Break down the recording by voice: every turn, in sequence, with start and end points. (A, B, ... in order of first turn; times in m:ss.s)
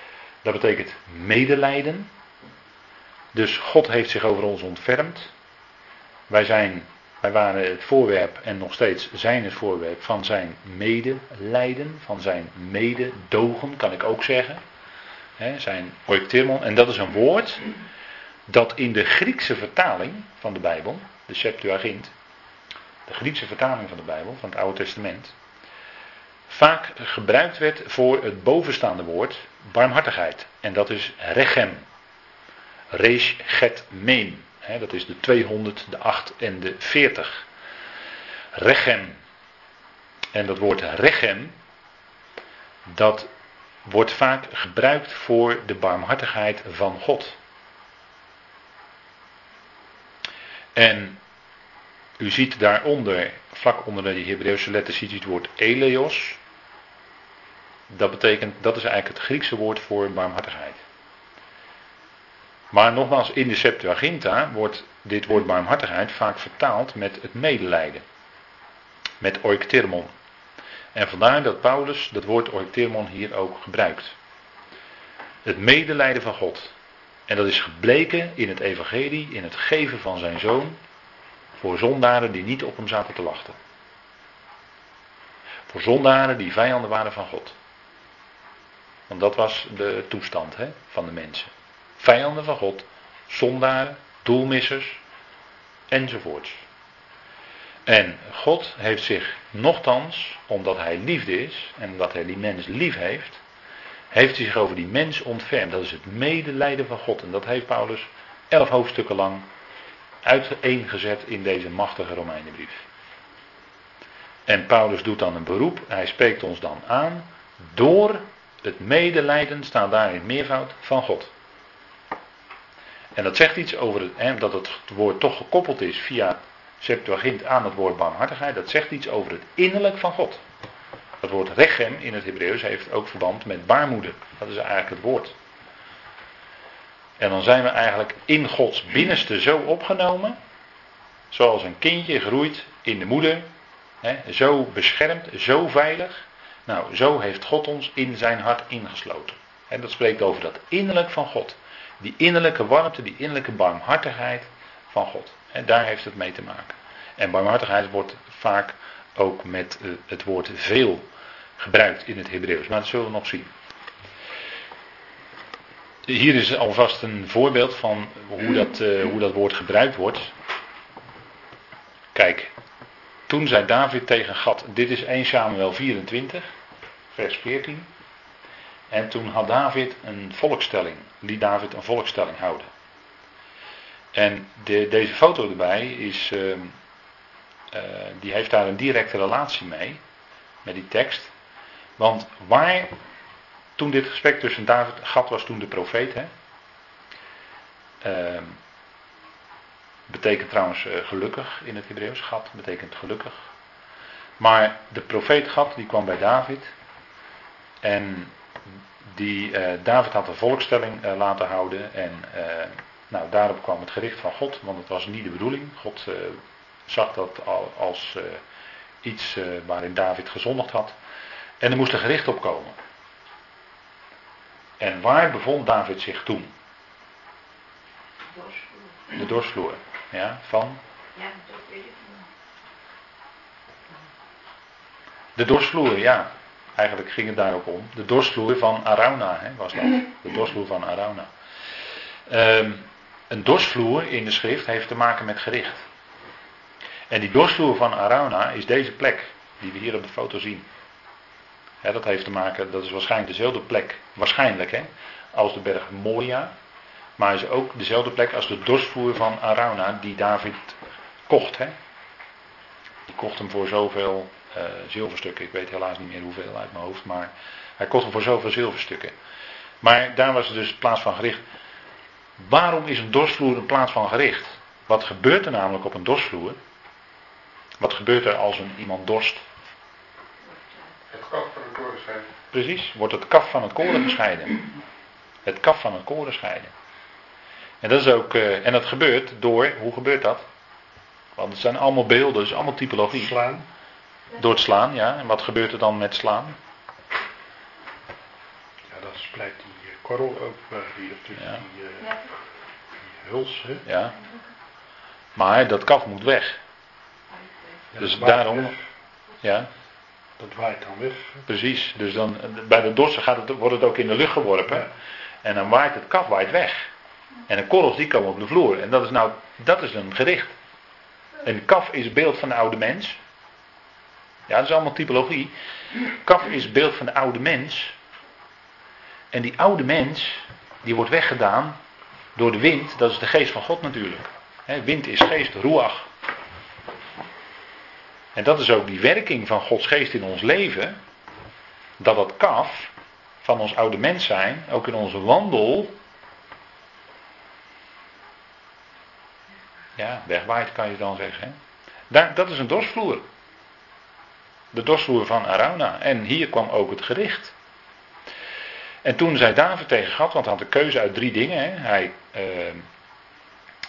0:00.4-0:02.1 A
0:03.3-0:05.3 A
0:06.3-0:14.6 A
0:15.4-0:17.7 A
0:18.5-0:22.1 A
0:23.1-0:25.4 A
0:26.5-0:31.9 A
0:32.9-0:37.5 A
0:38.5-0:39.2 A
0:40.3-0:41.6 A
0:42.9-0:43.3 A
0:43.8-0:47.4 A
0:50.8-0:51.2 A
0:52.2-0:56.4 A
0:57.9-1:00.8 A
1:02.7-1:08.0 A
1:09.2-1:10.1 A
1:10.9-1:14.2 A
1:15.4-1:16.8 A
1:17.3-1:20.8 A
1:21.6-1:23.6 A
1:25.7-1:27.6 A
1:29.1-1:35.0 A
1:35.9-1:36.6 A
1:37.9-1:43.4 A
1:44.1-1:49.5 A
1:50.2-1:52.8 A
1:54.5-2:01.3 A
2:03.2-2:10.4 A
2:11.2-2:15.4 A
2:17.2-2:20.4 A
2:21.3-2:23.5 A
2:24.0-2:41.0 A
2:41.6-2:43.5 A
2:46.1-2:50.4 A
2:52.1-2:52.5 A
2:53.3-2:56.5 A
2:57.1-2:57.9 A
2:58.9-3:02.7 A
3:04.1-3:06.8 A
3:07.7-3:10.0 A
3:10.6-3:11.3 A
3:12.0-3:12.9 A
3:13.8-3:16.3 A
3:18.0-3:18.6 A
3:20.1-3:23.5 A
3:24.4-3:26.7 A
3:27.8-3:28.4 A
3:29.0-3:38.4 A
3:39.0-3:41.0 A
3:41.6-3:42.8 A
3:44.8-3:46.5 A
3:48.3-3:49.2 B
3:49.2-3:50.8 A
3:51.2-3:52.3 B
3:55.4-4:01.3 A
4:02.3-4:05.9 A
4:07.1-4:10.7 A
4:11.8-4:16.5 A
4:17.2-4:21.8 A
4:23.1-4:29.1 A
4:29.8-4:31.4 A
4:32.4-4:36.6 A
4:37.8-4:39.5 A
4:40.4-4:41.0 B
4:41.1-4:42.2 C
4:42.5-4:44.6 A
4:45.4-4:46.7 A
4:47.8-4:50.5 A
4:51.4-4:53.4 A
4:53.2-4:53.7 C
4:54.4-4:56.6 A
4:58.9-5:02.2 C
5:03.0-5:03.8 C
5:03.8-5:04.2 A
5:05.4-5:06.6 A
5:07.9-5:08.8 C
5:08.0-5:08.8 A
5:09.4-5:09.7 A
5:10.4-5:11.4 C
5:11.5-5:14.9 A
5:15.4-5:16.9 A
5:17.5-5:20.5 A
5:21.4-5:23.2 A
5:24.5-5:25.5 A
5:26.2-5:28.0 A
5:29.3-5:31.8 A
5:32.4-5:36.1 A
5:38.4-5:41.0 A
5:42.0-5:45.9 A
5:50.0-5:51.6 A
5:52.1-5:53.2 A
5:54.7-5:57.6 A
5:59.0-6:02.8 A